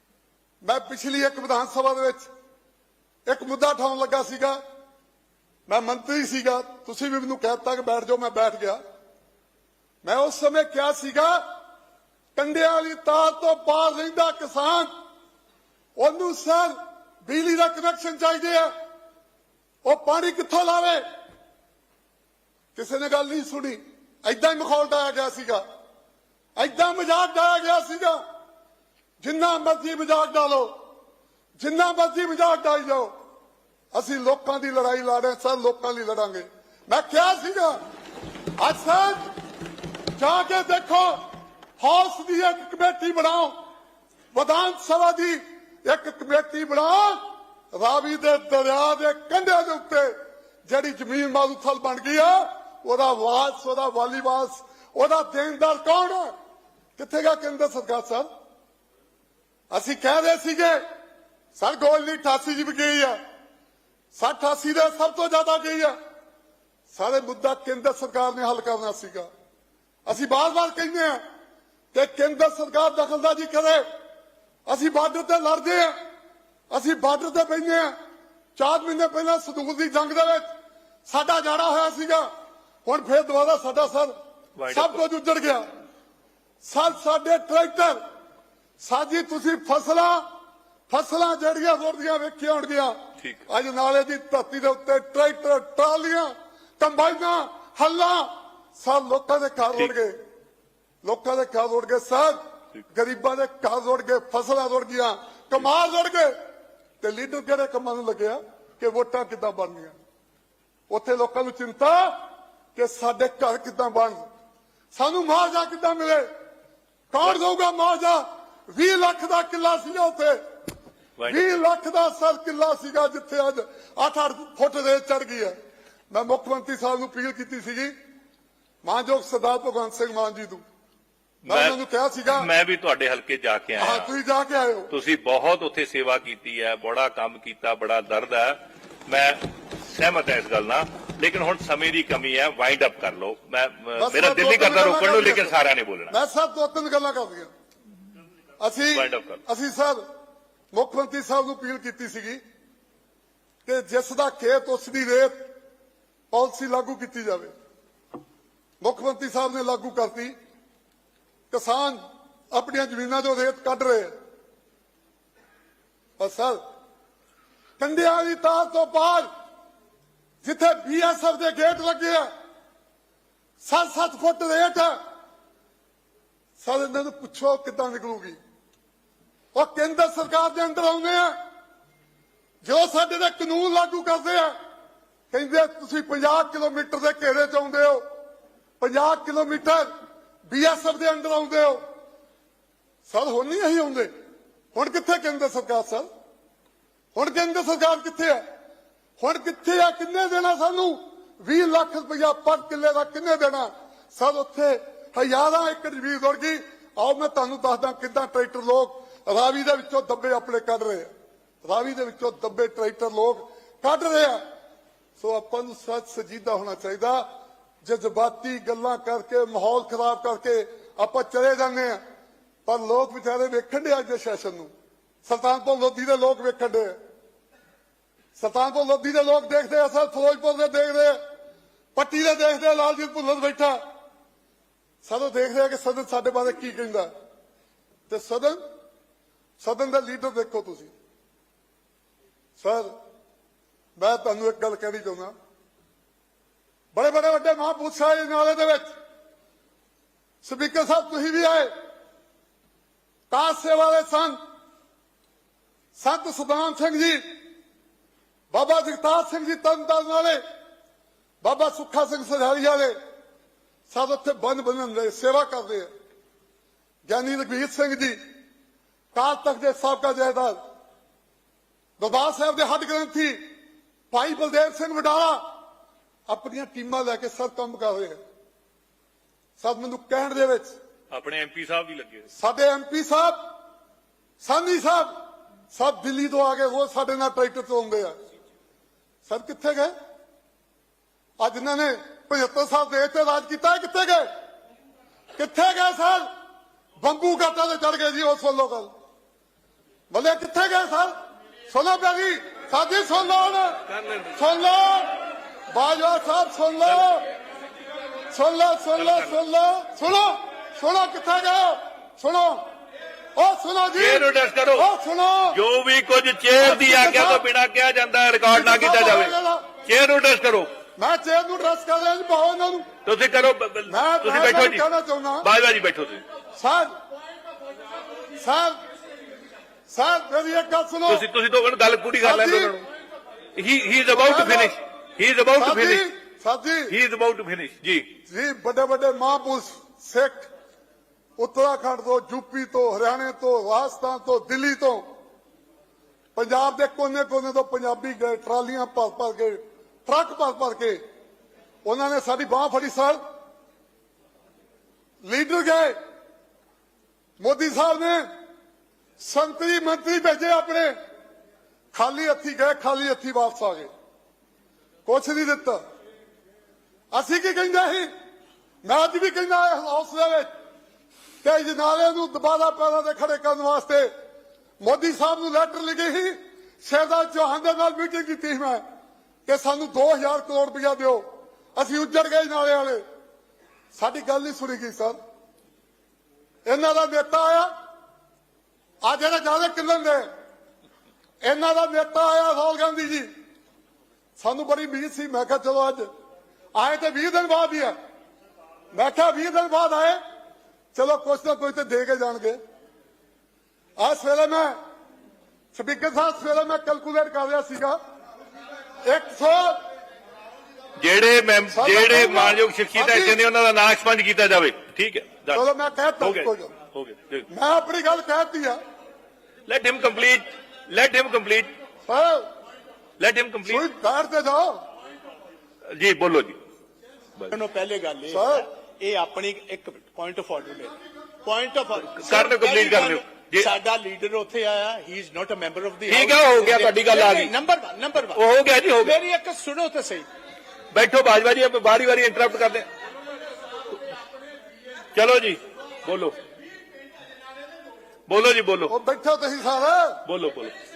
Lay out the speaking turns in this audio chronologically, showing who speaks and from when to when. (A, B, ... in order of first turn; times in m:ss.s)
0:00.6-0:02.3 A
0:03.3-0:04.6 A
0:05.7-0:08.8 A
0:10.0-0:11.4 A
0:12.3-0:14.9 A
0:16.0-0:16.7 A
0:17.2-0:18.7 A
0:19.8-0:21.0 A
0:22.7-0:25.6 A
0:26.6-0:28.2 A
0:29.2-0:30.7 A
0:31.6-0:33.1 A
0:33.9-0:37.8 A
0:38.6-0:39.2 A
0:40.2-0:41.1 A
0:41.8-0:43.5 A
0:44.3-0:47.2 A
0:47.7-0:50.1 A
0:50.6-0:56.3 A
0:57.0-0:58.3 A
0:59.7-1:00.8 A
1:01.5-1:03.1 A
1:04.1-1:05.9 A
1:06.9-1:09.3 A
1:10.0-1:11.2 A
1:11.9-1:13.8 A
1:14.7-1:15.9 A
1:16.7-1:17.9 A
1:18.6-1:20.5 A
1:21.1-1:22.3 A
1:22.8-1:24.1 A
1:24.6-1:25.0 B
1:24.7-1:25.6 A
1:26.6-1:28.0 A
1:28.8-1:30.2 A
1:30.9-1:32.9 A
1:33.5-1:40.1 A
1:41.0-1:42.4 A
1:42.9-1:46.3 A
1:47.0-1:49.9 A
1:50.9-1:52.2 A
1:52.7-1:54.2 A
1:54.9-1:56.2 A
1:57.1-2:00.4 A
2:01.2-2:01.6 B
2:01.3-2:05.5 A
2:06.1-2:07.9 A
2:08.8-2:10.6 A
2:11.4-2:11.8 B
2:11.5-2:12.5 A
2:12.3-2:14.1 B
2:13.8-2:14.9 A
2:14.9-2:26.1 B
2:24.0-2:25.6 A
2:26.1-2:27.5 A
2:28.6-2:30.0 A
2:28.9-2:29.4 B
2:30.7-2:32.4 A
2:33.6-2:35.3 A
2:36.3-2:37.5 A
2:38.8-2:40.3 A
2:41.5-2:42.0 A
2:42.5-2:44.1 A
2:46.2-2:46.6 A
2:47.8-2:49.3 A
2:50.4-2:52.2 A
2:53.6-2:54.9 A
2:56.6-2:58.4 A
2:59.5-3:01.3 A
3:02.6-3:04.5 A
3:05.3-3:08.0 A
3:08.8-3:09.8 A
3:10.5-3:11.8 A
3:13.0-3:14.1 A
3:14.7-3:16.0 A
3:17.1-3:18.4 A
3:19.2-3:31.1 A
3:31.6-3:34.4 A
3:35.2-3:37.2 A
3:37.8-3:42.0 A
3:42.6-3:44.7 A
3:45.2-3:46.9 A
3:48.4-3:51.2 A
3:51.9-3:53.8 A
3:55.0-3:57.1 A
3:58.1-3:58.6 A
3:59.6-4:00.9 A
4:02.6-4:02.9 A
4:04.0-4:05.3 A
4:06.9-4:08.9 A
4:10.4-4:11.7 A
4:13.3-4:14.4 A
4:16.0-4:17.2 A
4:18.5-4:20.4 A
4:21.4-4:22.9 A
4:23.9-4:25.9 A
4:27.0-4:28.2 A
4:29.1-4:30.6 A
4:32.0-4:33.5 A
4:34.1-4:35.4 A
4:36.3-4:38.2 A
4:39.6-4:40.7 A
4:41.1-4:42.3 B
4:42.4-4:43.5 A
4:44.4-4:45.1 A
4:45.7-4:48.1 A
4:49.2-4:49.9 A
4:51.4-4:54.2 A
4:55.4-4:56.3 A
4:57.0-4:58.9 A
5:00.1-5:01.1 A
5:01.7-5:03.8 A
5:04.3-5:05.2 A
5:05.7-5:07.2 A
5:08.3-5:12.7 A
5:09.0-5:09.3 B
5:13.4-5:15.6 A
5:14.0-5:14.9 B
5:15.5-5:20.7 B
5:16.6-5:17.4 A
5:18.5-5:19.6 A
5:21.0-5:22.9 A
5:23.0-5:24.8 B
5:23.9-5:25.5 A
5:25.4-5:26.2 B
5:26.6-5:26.9 A
5:28.4-5:28.8 A
5:29.9-5:31.2 A
5:31.1-5:32.8 B
5:32.2-5:32.8 A
5:33.5-5:36.0 B
5:34.1-5:34.8 A
5:35.6-5:36.9 A
5:36.9-5:38.1 B
5:38.3-5:40.5 A
5:41.4-5:45.0 A
5:46.3-5:51.0 A
5:51.8-5:53.2 A
5:55.2-5:55.9 A
5:57.4-5:58.3 A
5:59.2-6:00.9 A
6:01.9-6:03.9 A
6:05.0-6:05.8 A
6:07.1-6:08.1 A
6:08.8-6:10.5 A
6:11.4-6:14.1 A
6:14.8-6:18.8 A
6:19.4-6:21.2 A
6:21.7-6:23.0 A
6:23.9-6:25.2 A
6:26.6-6:27.7 A
6:29.0-6:30.2 A
6:31.4-6:33.3 A
6:34.4-6:36.0 A
6:36.7-6:37.9 A
6:38.9-6:40.2 A
6:40.9-6:42.6 A
6:44.0-6:44.7 A
6:45.7-6:48.0 A
6:49.0-6:49.8 A
6:51.0-6:55.6 B
6:51.7-6:53.4 A
6:55.5-6:56.7 A
6:56.2-6:57.5 B
6:57.5-6:58.8 A
6:59.7-7:01.7 B
7:02.1-7:02.4 A
7:03.2-7:03.9 B
7:03.6-7:04.8 A
7:05.9-7:06.6 B
7:07.5-7:18.4 C
7:08.3-7:08.6 A
7:12.1-7:13.7 B
7:16.1-7:17.5 B
7:18.3-7:19.2 B
7:19.0-7:20.3 C
7:20.9-7:22.9 B
7:25.1-7:26.3 B
7:28.3-7:28.9 B
7:28.9-7:30.2 A
7:30.2-7:30.7 B